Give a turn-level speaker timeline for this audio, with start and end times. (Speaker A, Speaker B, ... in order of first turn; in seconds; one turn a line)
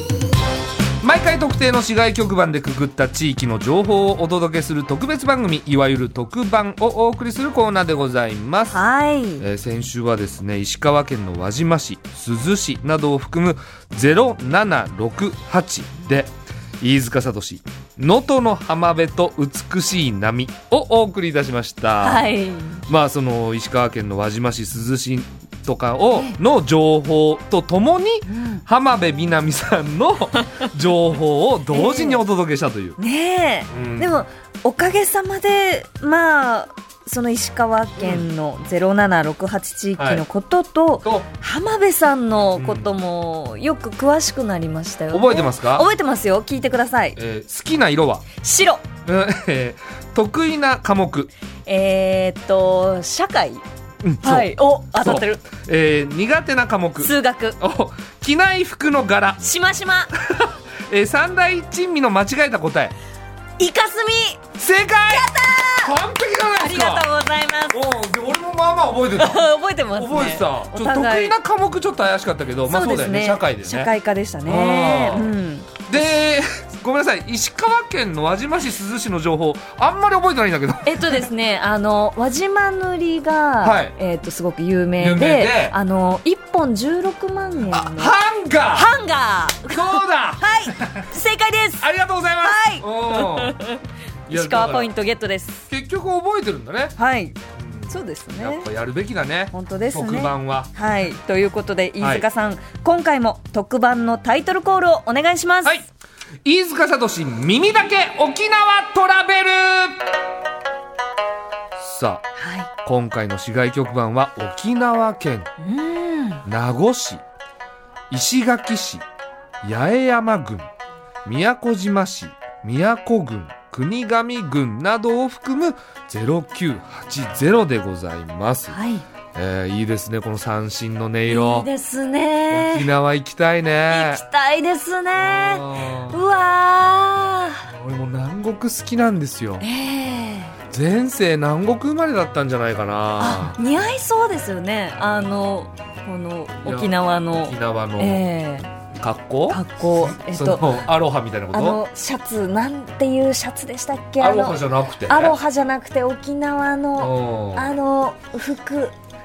Speaker A: 1.0-8.8
Speaker B: 8.7-9.4
Speaker A: 9.4-22.2
Speaker B: 22.0-22.8
Speaker A: 22.9-33.0
Speaker B: 26.1-26.4
Speaker B: 28.2-28.6
Speaker B: 31.7-32.2
Speaker B: 33.0-47.2
Speaker A: 33.7-34.1
Speaker A: 38.0-38.2
Speaker A: 40.0-40.2
Speaker A: 42.5-42.9
Speaker A: 45.1-45.9
Speaker A: 47.1-48.2
Speaker B: 48.4-48.8
Speaker A: 49.0-51.3
Speaker B: 51.6-53.6
Speaker A: 54.0-59.4
Speaker B: 54.2-55.4
Speaker B: 57.0-57.6
Speaker B: 59.4-60.1
Speaker A: 60.2-62.9
Speaker B: 63.6-64.5
Speaker A: 64.5-67.1
Speaker B: 65.1-65.9
Speaker B: 66.5-67.8
Speaker A: 67.7-73.9
Speaker B: 69.2-71.3
Speaker B: 72.7-75.9
Speaker A: 74.4-75.3
Speaker A: 75.9-81.2
Speaker B: 80.8-88.1
Speaker A: 83.6-83.9
Speaker A: 85.0-85.8
Speaker A: 87.7-88.9
Speaker B: 88.7-91.9
Speaker A: 89.7-91.1
Speaker A: 91.8-93.5
Speaker B: 92.4-95.7
Speaker A: 94.3-94.9
Speaker A: 95.7-97.0
Speaker B: 97.0-97.4
Speaker A: 97.5-100.7
Speaker B: 97.9-98.7
Speaker B: 99.5-105.8
Speaker A: 102.0-102.2
Speaker A: 106.4-110.1
Speaker A: 111.8-112.3
Speaker B: 112.4-112.7
Speaker A: 112.8-115.5
Speaker B: 115.6-116.4
Speaker A: 116.4-117.2
Speaker A: 118.1-119.0
Speaker A: 119.6-120.7
Speaker A: 121.2-128.8
Speaker B: 128.7-129.0
Speaker A: 129.3-131.7
Speaker B: 131.3-132.9
Speaker A: 132.5-134.2
Speaker B: 133.9-137.7
Speaker A: 135.2-136.2
Speaker A: 137.7-139.6
Speaker B: 139.6-140.6
Speaker A: 140.7-143.6
Speaker B: 143.2-148.7
Speaker A: 146.6-148.2
Speaker A: 148.9-151.8
Speaker B: 149.5-150.8
Speaker B: 151.5-158.9
Speaker A: 154.2-155.4
Speaker A: 157.0-157.7